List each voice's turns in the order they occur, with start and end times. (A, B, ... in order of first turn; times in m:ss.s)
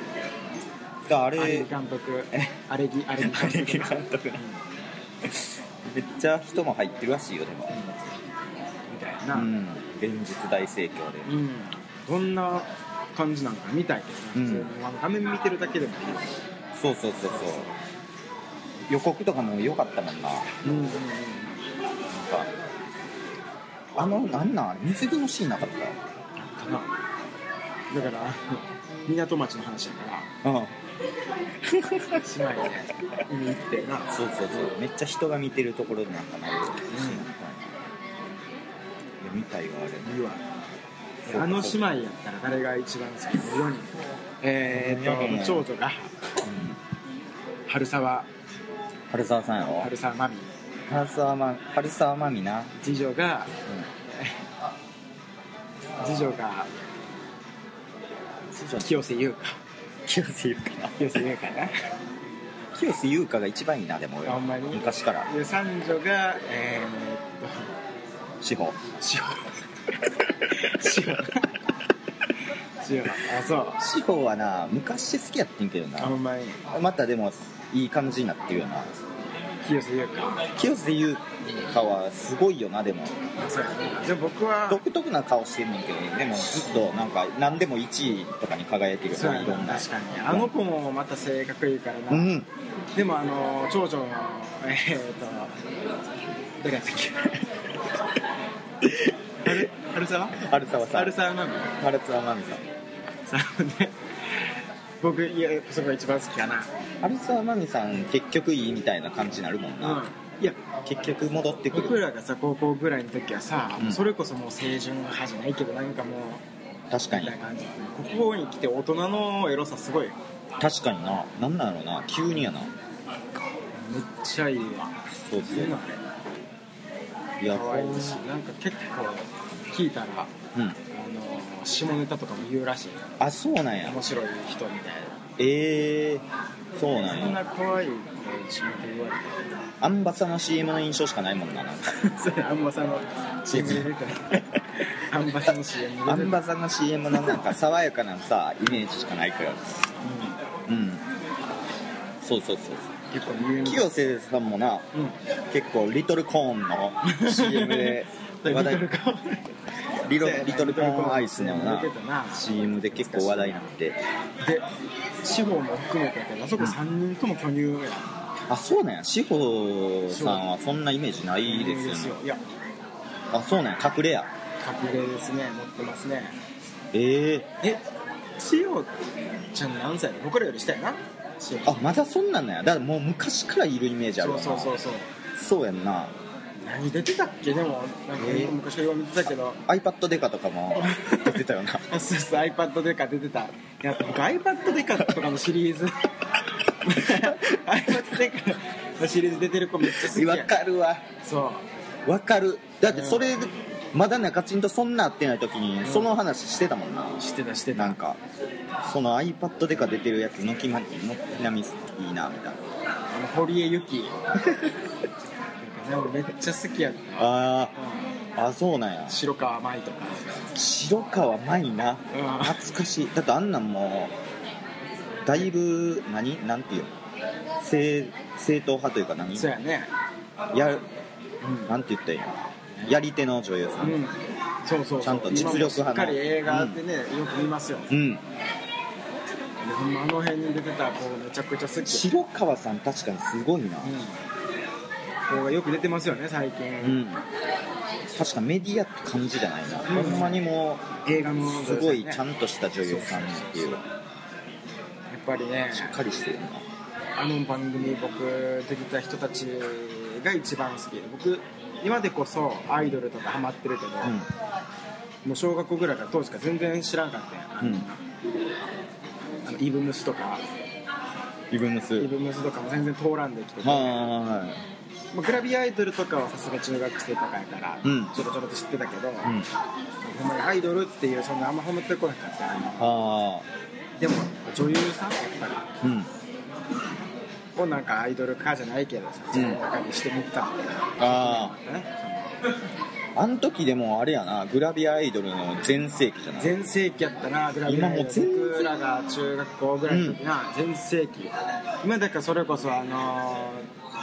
0:01.0-0:01.7 A
0:01.4-0:04.6 B
0:03.2-0:04.4 A
0:05.2-0:07.7 A
0:08.9-0:09.5 B
0:09.3-0:11.3 A
0:11.2-0:16.4 B
0:14.3-0:14.7 A
0:16.8-0:17.7 A
0:17.3-0:17.7 B
0:18.9-0:20.6 A
0:20.6-0:21.7 B
0:22.1-0:22.5 A
0:24.0-0:26.0 A
0:26.4-0:26.9 B
0:27.9-0:30.3 B
0:30.4-0:30.8 A
0:31.6-0:32.2 A
0:32.2-0:34.7 B
0:34.1-0:37.7 A
0:36.9-0:37.2 B
0:39.2-0:40.1 A
0:40.0-0:40.4 B
0:41.2-0:41.8 A
0:41.2-0:46.1 B
0:44.7-0:45.7 A
0:46.4-0:46.8 A
0:47.7-0:48.3 B
0:49.1-0:49.9 A
0:49.8-0:50.5 B
0:50.9-0:52.7 A
0:52.8-0:53.5 B
0:54.2-0:54.4 B
0:56.0-0:56.7 B
0:58.5-0:59.0 A
0:58.7-0:59.6 B
1:00.0-1:01.0 A
1:01.0-1:01.7 B
1:02.7-1:05.3 A
1:04.2-1:07.7 B
1:08.4-1:08.8 A
1:09.0-1:11.5 B
1:12.8-1:13.8 B
1:13.8-1:16.2 A
1:16.0-1:16.6 B
1:16.7-1:19.1 A
1:19.6-1:20.4 B
1:20.5-1:23.2 A
1:23.4-1:24.8 B
1:24.7-1:30.5 A
1:26.5-1:27.0 B
1:29.1-1:32.3 B
1:32.1-1:32.5 A
1:32.9-1:35.6 B
1:36.6-1:37.4 B
1:38.8-1:39.6 A
1:39.4-1:41.7 B
1:40.4-1:41.2 A
1:41.7-1:42.6 A
1:43.3-1:44.5 B
1:45.0-1:46.7 B
1:47.0-1:50.0 A
1:49.8-1:56.4 B
1:51.1-1:52.0 A
1:56.9-1:57.3 A
1:57.1-2:00.2 B
2:00.6-2:02.7 A
2:03.7-2:04.9 B
2:05.2-2:05.8 A
2:05.4-2:06.0 B
2:07.4-2:08.2 A
2:07.5-2:10.3 B
2:10.9-2:13.1 B
2:13.2-2:14.0 A
2:13.8-2:15.2 B
2:15.4-2:17.4 A
2:16.9-2:19.6 B
2:19.8-2:22.0 A
2:21.9-2:26.4 B
2:23.5-2:24.4 A
2:26.0-2:29.7 A
2:27.1-2:27.5 B
2:30.0-2:30.4 B
2:30.7-2:31.0 A
2:32.2-2:32.9 A
2:33.1-2:33.9 B
2:33.6-2:34.9 A
2:34.9-2:35.2 B
2:35.5-2:38.8 A
2:37.0-2:39.5 B
2:40.0-2:44.0 A
2:40.0-2:43.7 B
2:44.4-2:44.7 B
2:45.2-2:48.1 B
2:48.5-2:52.2 A
2:50.1-2:50.4 B
2:51.4-2:52.4 B
2:53.3-2:54.3 A
2:54.6-2:56.4 B
2:56.9-2:57.5 A
2:58.4-2:58.9 B
2:59.5-3:01.9 B
3:01.6-3:04.8 A
3:04.2-3:05.1 B
3:05.3-3:06.1 A
3:06.6-3:09.6 B
3:08.2-3:08.6 A
3:09.6-3:11.8 A
3:10.8-3:16.1 B
3:16.7-3:20.5 B
3:17.2-3:18.2 A
3:19.8-3:21.0 A
3:21.2-3:21.6 B
3:22.0-3:27.2 A
3:22.9-3:23.3 B
3:25.8-3:26.1 B
3:27.2-3:28.0 B
3:27.7-3:28.2 A
3:28.8-3:32.6 A
3:33.1-3:34.1 B
3:34.4-3:34.7 A
3:35.6-3:38.0 B
3:37.2-3:37.7 A
3:38.4-3:39.2 A
3:39.1-3:40.4 B
3:40.5-3:44.1 A
3:42.1-3:42.6 B
3:45.2-3:46.9 A
3:47.6-3:49.5 A
3:49.3-3:49.9 B
3:50.5-3:50.8 A
3:51.4-3:51.7 B
3:51.7-3:54.1 A
3:53.8-3:57.9 B
3:55.0-3:56.8 A
3:57.9-3:58.2 A
3:59.6-4:02.2 B
4:01.8-4:04.0 A
4:03.8-4:04.2 B
4:05.3-4:07.0 B
4:06.8-4:07.2 A
4:08.1-4:13.8 A
4:09.9-4:10.4 B
4:11.0-4:12.2 B
4:12.8-4:13.9 B
4:15.1-4:16.0 B
4:15.7-4:16.6 A
4:17.2-4:24.2 B
4:24.0-4:24.3 A
4:25.2-4:28.0 B
4:27.6-4:27.8 A
4:29.4-4:30.4 B
4:31.5-4:32.1 A
4:32.0-4:34.0 B
4:33.6-4:34.6 A
4:35.1-4:39.3 B
4:37.8-4:38.1 A
4:39.2-4:39.5 A
4:40.0-4:43.0 B
4:42.8-4:43.5 A
4:44.0-4:45.7 B
4:45.8-4:46.1 A
4:47.6-4:52.4 B
4:49.3-4:49.6 A
4:51.0-4:51.5 A
4:53.2-4:56.6 A
4:56.4-5:03.7 B
4:57.7-4:58.7 A
4:59.9-5:00.2 A